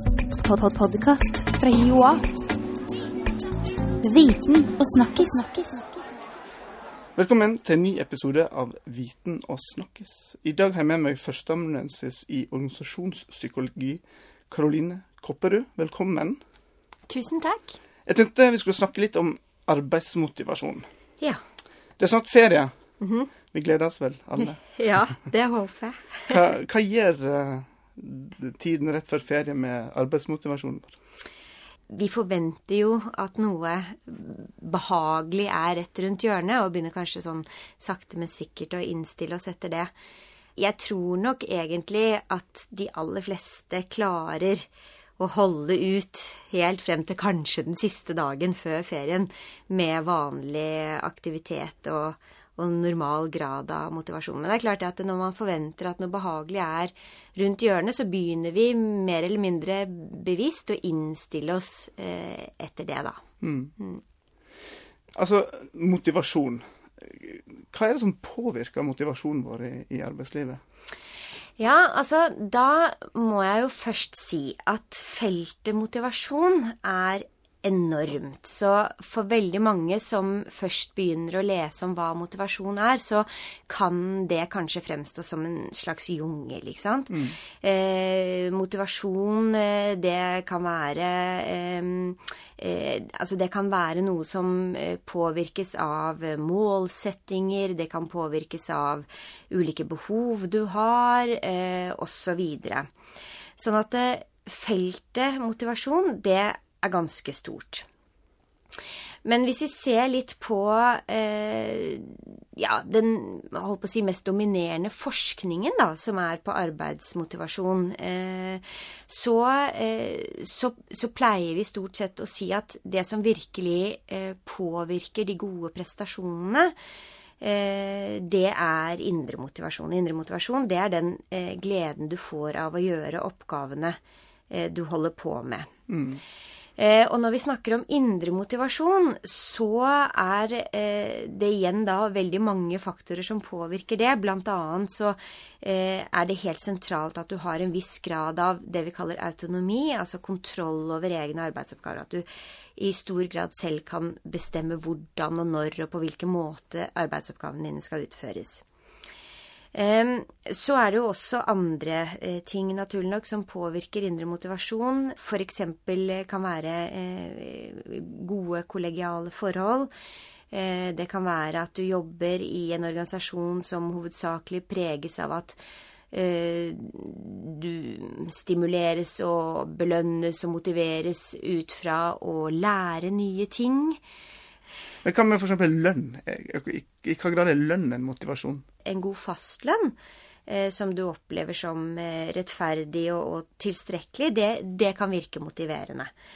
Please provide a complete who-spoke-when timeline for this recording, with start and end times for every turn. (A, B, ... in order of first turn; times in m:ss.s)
0:00.4-0:02.2 A
0:04.0-0:05.7 A
0:07.2-0:16.4 B
0:17.1-0:17.8 C
0:18.1-0:20.9 B
0:22.0-0:22.7 B
0:23.0-0:23.3 C
0:23.5-0:24.6 B
0:24.4-0:26.4 C
0:26.3-0:31.0 B
0:31.9-0:39.9 C
0:40.6-1:03.2 C
1:03.4-1:03.7 B
1:03.8-1:04.0 C
1:05.2-1:10.6 B
1:11.6-1:42.9 C
1:27.1-1:27.4 B
1:43.6-1:47.9 C
1:49.2-2:06.7 C
2:07.4-2:14.0 C
2:14.5-2:15.7 C
2:15.9-2:16.2 B
2:16.8-2:38.6 C
2:39.7-2:49.9 C
2:50.5-2:55.6 C
2:56.1-3:04.0 C
3:05.0-3:08.6 B
3:08.8-3:10.0 C
3:10.5-3:16.1 C